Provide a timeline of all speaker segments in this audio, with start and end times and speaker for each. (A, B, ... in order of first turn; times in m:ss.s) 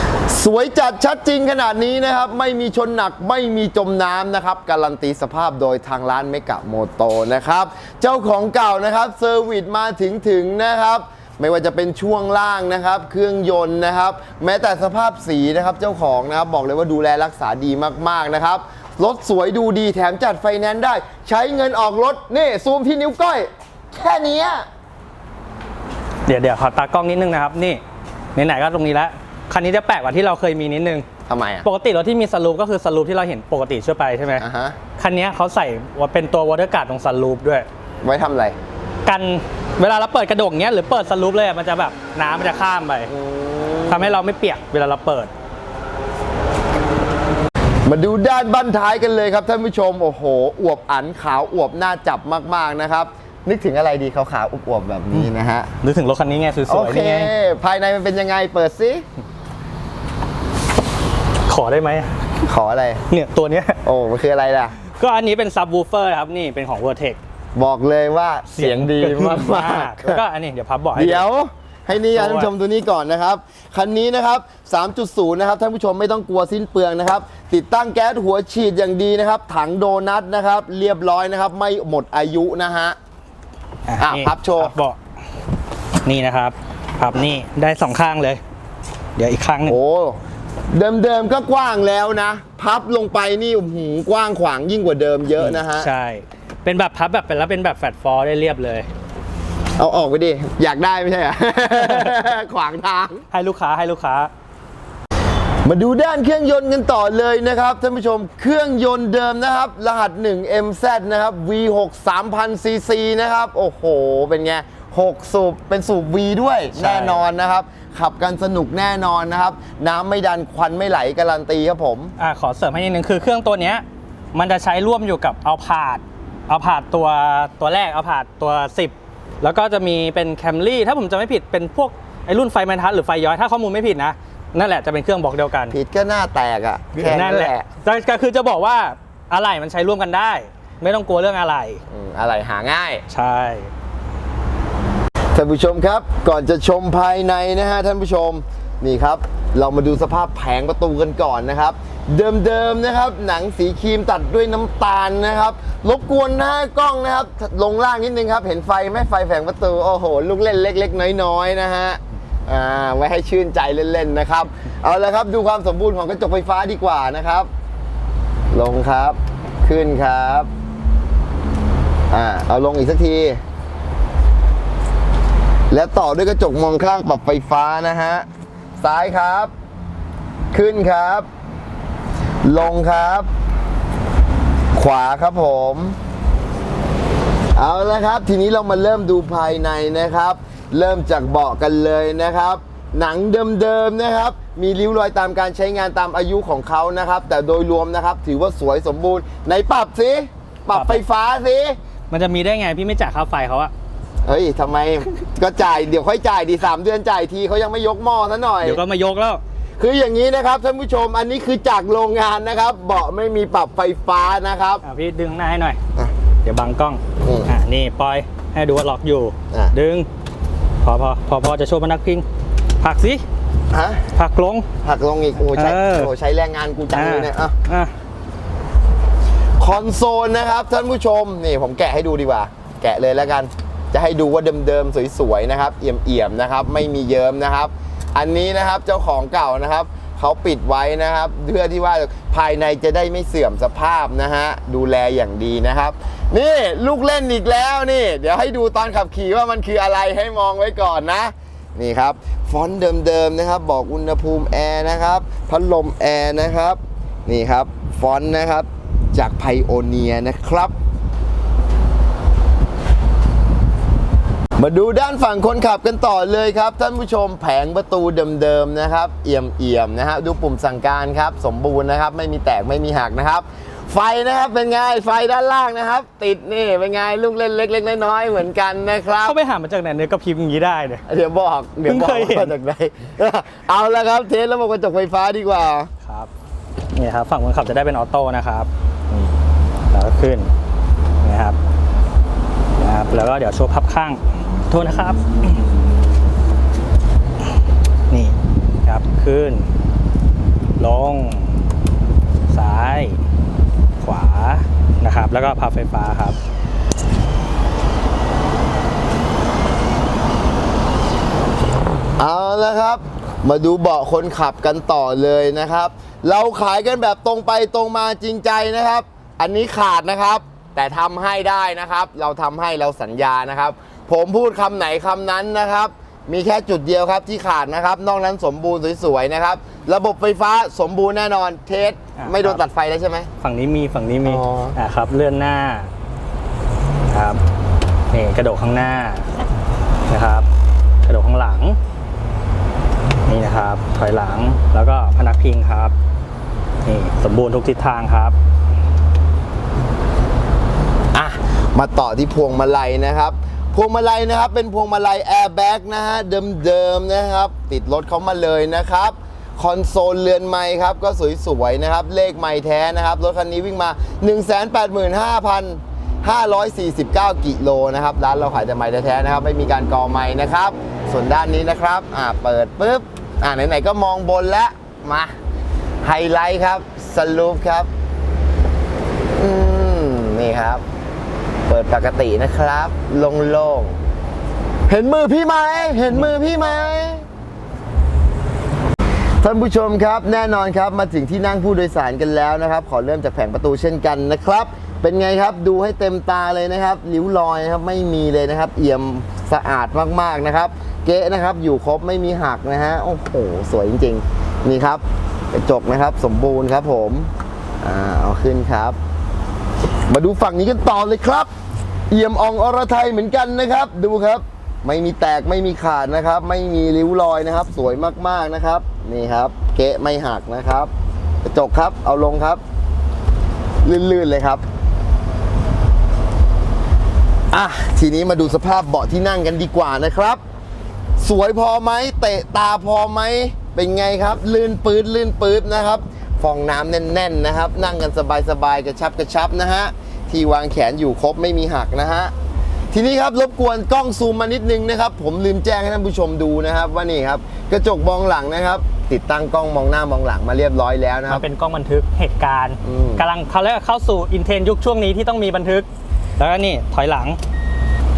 0:00.3-0:24.6 A
0:26.3-0:27.8 B
0:28.3-0:31.0 B
0:31.3-0:31.6 A
0:31.6-0:34.4 B
0:34.4-0:34.8 A
0:35.0-0:37.7 B
0:38.0-0:38.6 A
0:39.0-0:43.1 B
0:43.1-0:44.2 A
0:43.9-0:45.3 B
0:47.8-0:55.7 A
0:55.1-0:57.3 B
0:56.7-0:59.0 A
1:01.4-1:02.1 B
1:02.4-1:03.0 A
1:03.1-1:03.8 B
1:03.8-1:04.7 A
1:04.9-1:07.2 B
1:07.5-1:10.2 A
1:08.5-1:11.2 B
1:10.9-1:23.0 A
1:12.1-1:12.5 B
1:23.9-1:25.0 B
1:24.0-1:24.7 A
1:26.0-1:28.4 B
1:29.2-1:29.8 B
1:29.6-1:30.2 A
1:30.7-1:35.9 A
1:35.4-1:38.9 B
1:39.8-1:43.2 A
1:41.7-1:42.2 B
1:43.3-1:44.3 B
1:45.6-2:02.1 A
1:56.8-1:57.2 B
2:02.2-2:15.8 B
2:15.7-2:17.6 A
2:16.9-2:21.8 B
2:21.9-2:23.0 A
2:23.1-2:23.7 B
2:25.3-2:47.5 A
2:48.5-2:50.5 A
2:52.1-2:53.4 A
2:55.7-2:58.3 A
2:58.8-2:59.5 A
3:00.5-3:01.3 A
3:02.4-3:03.3 A
3:04.7-3:06.0 A
3:07.6-3:21.8 A
3:20.7-3:21.0 B
3:22.1-3:23.7 B
3:24.2-3:28.8 A
3:28.6-3:29.4 B
3:29.8-3:34.8 A
3:34.8-3:35.8 B
3:36.4-3:40.1 B
3:37.2-3:37.5 A
3:40.8-3:42.2 B
3:42.8-3:43.2 B
3:43.7-3:44.0 A
3:44.1-3:44.7 B
3:44.8-3:47.5 A
3:45.4-3:46.1 B
3:46.9-3:47.9 B
3:49.6-4:20.7 A
4:24.6-4:39.4 A
4:39.2-4:41.0 B
4:41.1-4:45.9 A
4:41.8-4:42.5 B
4:46.0-4:46.3 B
4:46.9-4:50.5 B
4:51.2-4:51.6 B
4:52.8-4:55.6 B
4:58.1-4:59.7 B
5:00.8-5:01.6 B
5:02.5-5:03.2 B
5:04.0-5:06.4 B
5:12.2-5:33.3 A
5:32.2-5:32.6 B
5:33.4-5:35.9 B
5:34.2-5:34.8 A
5:37.1-5:37.4 B
5:38.1-5:39.3 B
5:40.1-5:40.5 B
5:41.0-5:41.8 B
5:43.2-5:45.9 B
5:46.8-5:48.4 B
5:51.1-6:15.3 A
6:16.0-6:17.9 A
6:19.4-6:20.8 A
6:21.7-6:24.0 A
6:24.9-6:27.2 A
6:29.4-6:47.3 A
6:47.8-6:49.0 A
6:50.1-6:51.5 A
6:52.1-7:00.9 A
7:01.4-7:02.6 A
7:03.8-7:04.6 A
7:07.5-7:10.4 A
7:11.2-7:22.3 A
7:22.9-7:31.4 A
7:31.3-7:37.4 B
7:32.8-7:33.2 A